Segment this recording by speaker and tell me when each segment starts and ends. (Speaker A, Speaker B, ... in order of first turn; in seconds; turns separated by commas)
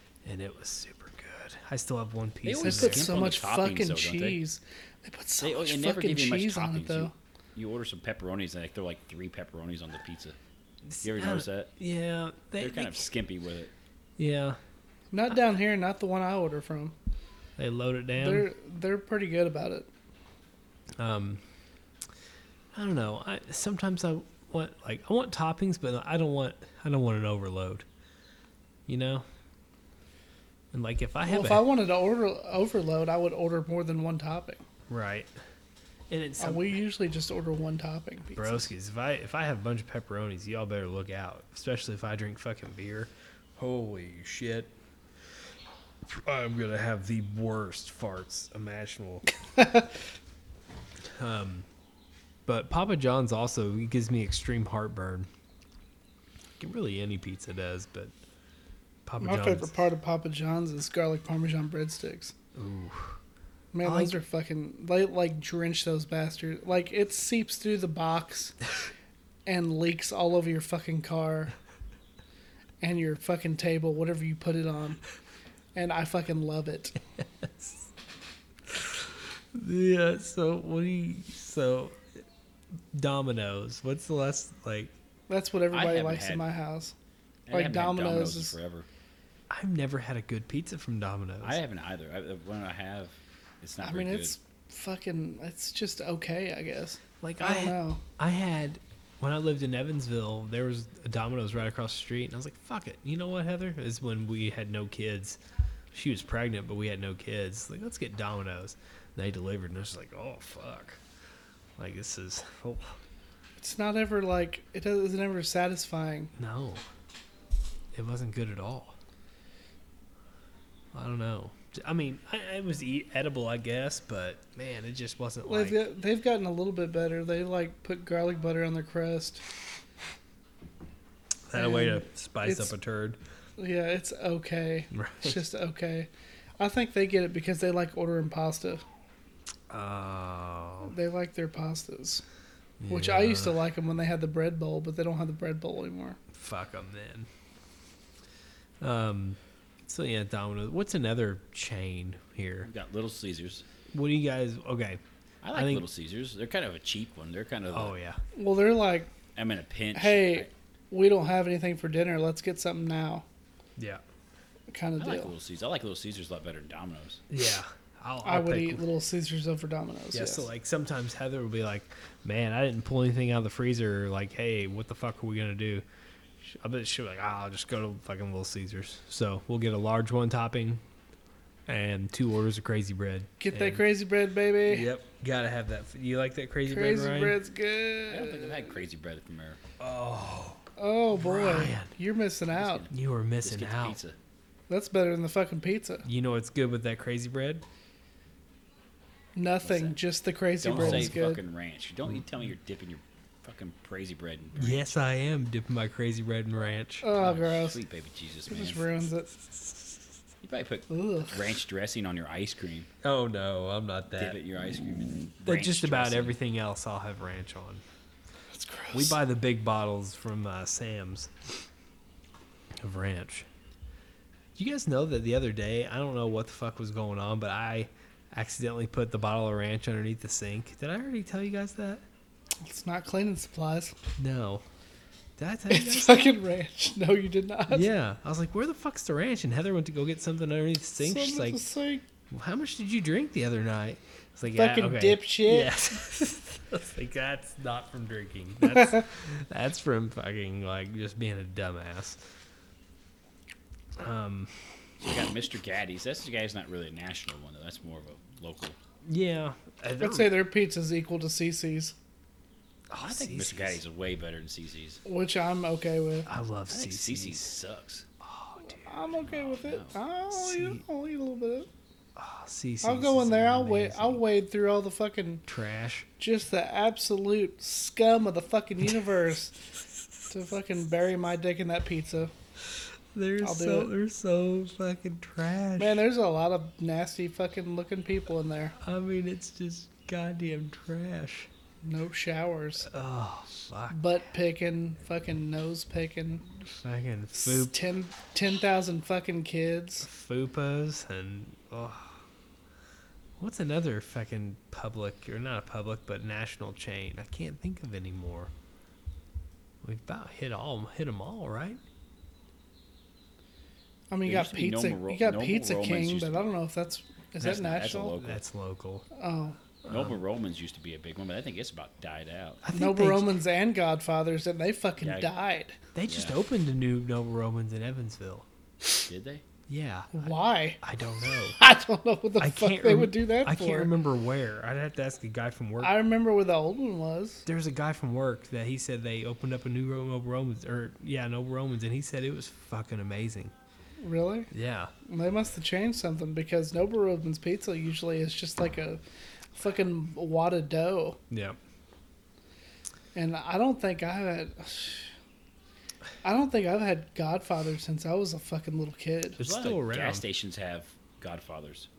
Speaker A: 0.2-3.2, Speaker B: 2.4-4.4, Speaker C: 2.6-7.1, Speaker B: 5.4-10.4, Speaker A: 10.9-13.1, Speaker B: 11.0-11.7, Speaker B: 12.6-13.7, Speaker A: 14.2-14.6, Speaker C: 15.1-17.0, Speaker A: 17.6-18.5, Speaker C: 18.2-19.9, Speaker A: 21.0-21.4, Speaker A: 22.7-27.9, Speaker A: 28.9-29.2, Speaker A: 30.7-31.7, Speaker C: 31.3-34.6, Speaker A: 34.9-35.3, Speaker A: 36.1-36.8, Speaker C: 36.4-38.7, Speaker A: 38.4-44.7, Speaker A: 46.1-49.2, Speaker C: 49.5-49.9, Speaker A: 51.2-51.7, Speaker A: 52.5-55.3, Speaker A: 56.6-58.1, Speaker A: 59.1-59.7, Speaker C: 59.2-62.4, Speaker A: 62.5-63.2, Speaker C: 63.7-68.6, Speaker A: 63.8-64.2, Speaker C: 69.5-71.5, Speaker C: 72.8-75.0, Speaker C: 75.8-77.0, Speaker A: 77.4-77.9, Speaker A: 78.7-82.0, Speaker A: 82.9-84.9, Speaker C: 85.3-86.9, Speaker B: 85.7-86.5, Speaker B: 87.5-88.9, Speaker C: 87.5-88.6, Speaker A: 89.5-91.6, Speaker B: 91.4-94.3, Speaker C: 93.8-98.0, Speaker A: 97.2-105.4, Speaker A: 105.9-111.0, Speaker A: 111.8-113.0, Speaker C: 113.6-116.3, Speaker A: 116.4-116.8, Speaker A: 117.9-119.0, Speaker A: 120.9-125.8, Speaker C: 125.5-129.4, Speaker A: 131.5-133.2, Speaker C: 131.5-132.7, Speaker C: 133.6-138.8, Speaker A: 134.9-135.4, Speaker A: 139.7-140.9, Speaker C: 140.8-142.2, Speaker A: 142.8-143.6, Speaker C: 142.9-146.2, Speaker A: 146.3-147.3, Speaker A: 148.8-152.7, Speaker B: 152.6-153.7, Speaker A: 153.9-155.0, Speaker B: 155.4-157.9, Speaker A: 155.5-155.8, Speaker A: 157.7-158.2, Speaker C: 158.3-159.1, Speaker B: 159.4-160.5, Speaker C: 159.9-163.2, Speaker A: 163.8-164.0, Speaker C: 164.7-165.3, Speaker B: 165.0-167.2, Speaker A: 167.3-168.8, Speaker C: 168.2-170.5, Speaker A: 170.1-175.8, Speaker A: 176.4-180.8, Speaker A: 181.7-183.8, Speaker C: 183.4-184.9, Speaker A: 184.7-187.4, Speaker C: 186.7-188.8, Speaker B: 188.1-189.6, Speaker A: 189.8-190.6, Speaker C: 190.8-192.9, Speaker A: 191.1-191.9, Speaker B: 192.5-192.9, Speaker A: 192.9-194.0, Speaker B: 193.4-194.2, Speaker C: 194.7-196.1, Speaker A: 196.1-197.6, Speaker C: 199.4-201.4, Speaker B: 199.6-200.0, Speaker B: 200.6-205.0, Speaker A: 200.7-201.1, Speaker A: 204.6-207.1, Speaker C: 207.0-207.8, Speaker B: 207.2-208.9, Speaker C: 208.5-209.8, Speaker B: 210.4-212.9, Speaker C: 210.9-211.4, Speaker A: 213.0-214.4, Speaker B: 214.2-216.4, Speaker A: 215.4-217.8, Speaker C: 218.5-219.2, Speaker A: 218.9-221.6, Speaker A: 222.8-223.5, Speaker A: 224.6-232.0, Speaker C: 232.6-234.0, Speaker A: 234.2-234.6, Speaker A: 235.4-236.3, Speaker C: 235.7-237.9, Speaker A: 237.7-241.6, Speaker C: 241.0-242.0, Speaker A: 242.3-252.2, Speaker C: 244.5-245.8, Speaker C: 248.7-249.0, Speaker A: 254.0-254.8, Speaker B: 255.0-258.8, Speaker A: 259.0-260.4, Speaker C: 260.0-261.9, Speaker A: 262.9-263.8, Speaker B: 263.0-265.0, Speaker C: 265.1-266.3, Speaker A: 266.3-267.5, Speaker B: 266.7-268.1, Speaker A: 268.2-268.9, Speaker C: 268.7-271.7, Speaker B: 269.2-270.0, Speaker A: 270.3-270.8, Speaker A: 272.2-274.2, Speaker C: 272.8-275.4, Speaker A: 275.5-276.1, Speaker C: 276.2-279.6, Speaker C: 280.3-282.3, Speaker A: 283.1-286.0, Speaker C: 283.4-283.9, Speaker C: 285.8-288.8, Speaker A: 288.8-291.5, Speaker C: 291.8-292.9, Speaker A: 292.9-294.0, Speaker C: 293.9-296.5, Speaker A: 296.6-297.7, Speaker C: 297.4-300.1, Speaker A: 300.0-302.2, Speaker A: 303.4-308.5, Speaker A: 309.8-311.8, Speaker C: 314.1-318.2, Speaker B: 314.3-316.4, Speaker B: 317.4-318.4, Speaker A: 318.1-319.1, Speaker C: 319.1-319.6, Speaker A: 319.8-320.2, Speaker B: 319.9-322.6, Speaker A: 322.6-323.3, Speaker C: 322.7-325.8, Speaker B: 325.0-325.3, Speaker A: 325.9-328.5, Speaker B: 326.1-326.4, Speaker B: 329.1-329.4, Speaker A: 329.7-331.6, Speaker C: 330.1-330.8, Speaker C: 331.6-333.9, Speaker A: 332.4-336.0, Speaker C: 335.8-337.5, Speaker A: 337.5-343.5, Speaker C: 344.0-344.5, Speaker A: 344.5-344.9, Speaker C: 345.1-349.0, Speaker C: 349.6-351.2, Speaker A: 351.3-351.6, Speaker C: 353.1-355.1, Speaker C: 356.2-359.4, Speaker A: 359.4-360.2, Speaker B: 359.4-361.9